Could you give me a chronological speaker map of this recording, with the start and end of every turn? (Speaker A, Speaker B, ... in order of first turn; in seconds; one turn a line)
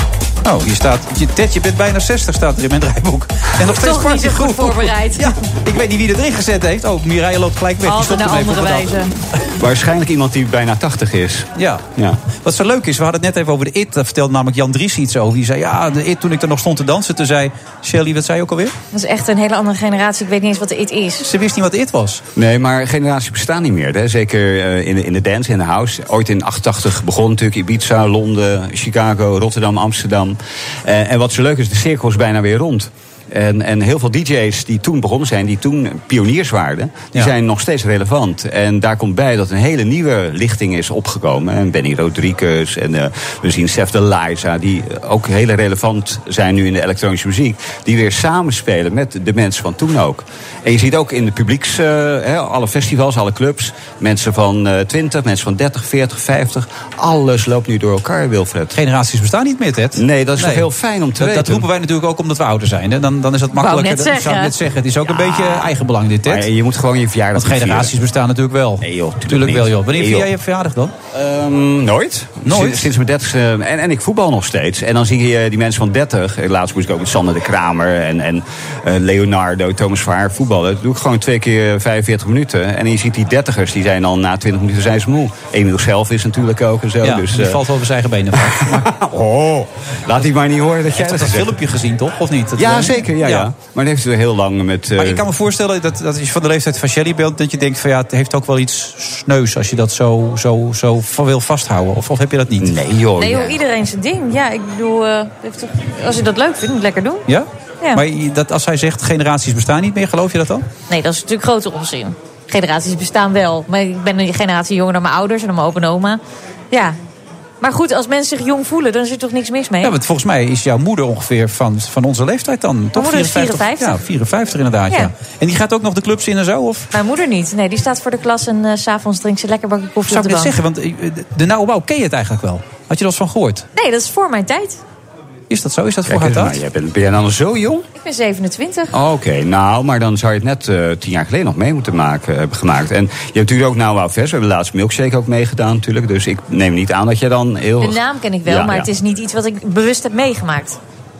Speaker A: 0.4-9.1
Speaker B: 3.7-5.3
Speaker B: 7.8-9.1
Speaker C: 9.6-12.2
Speaker A: 11.6-11.8
Speaker A: 12.4-18.7
Speaker B: 18.9-21.2
Speaker A: 21.2-22.2
Speaker C: 22.4-58.8
Speaker A: 58.7-66.5
Speaker C: 60.0-61.6
Speaker B: 63.5-64.5
Speaker C: 65.3-65.6
Speaker C: 66.2-67.9
Speaker A: 67.3-70.9
Speaker C: 68.8-70.3
Speaker C: 71.1-87.6
Speaker A: 72.4-72.9
Speaker A: 87.0-88.9
Speaker C: 88.3-91.6
Speaker A: 90.9-93.5
Speaker C: 92.6-95.2
Speaker A: 95.0-102.8
Speaker C: 102.6-103.6
Speaker B: 103.2-107.2
Speaker A: 107.3-110.7
Speaker B: 110.9-117.0
Speaker B: 117.6-119.9
Speaker A: 119.8-126.9
Speaker B: 122.9-124.0
Speaker B: 126.9-130.5
Speaker A: 130.1-133.7
Speaker B: 133.7-134.8
Speaker A: 135.5-136.6
Speaker C: 136.1-137.8
Speaker B: 138.0-138.9
Speaker C: 138.9-148.9
Speaker B: 147.8-150.8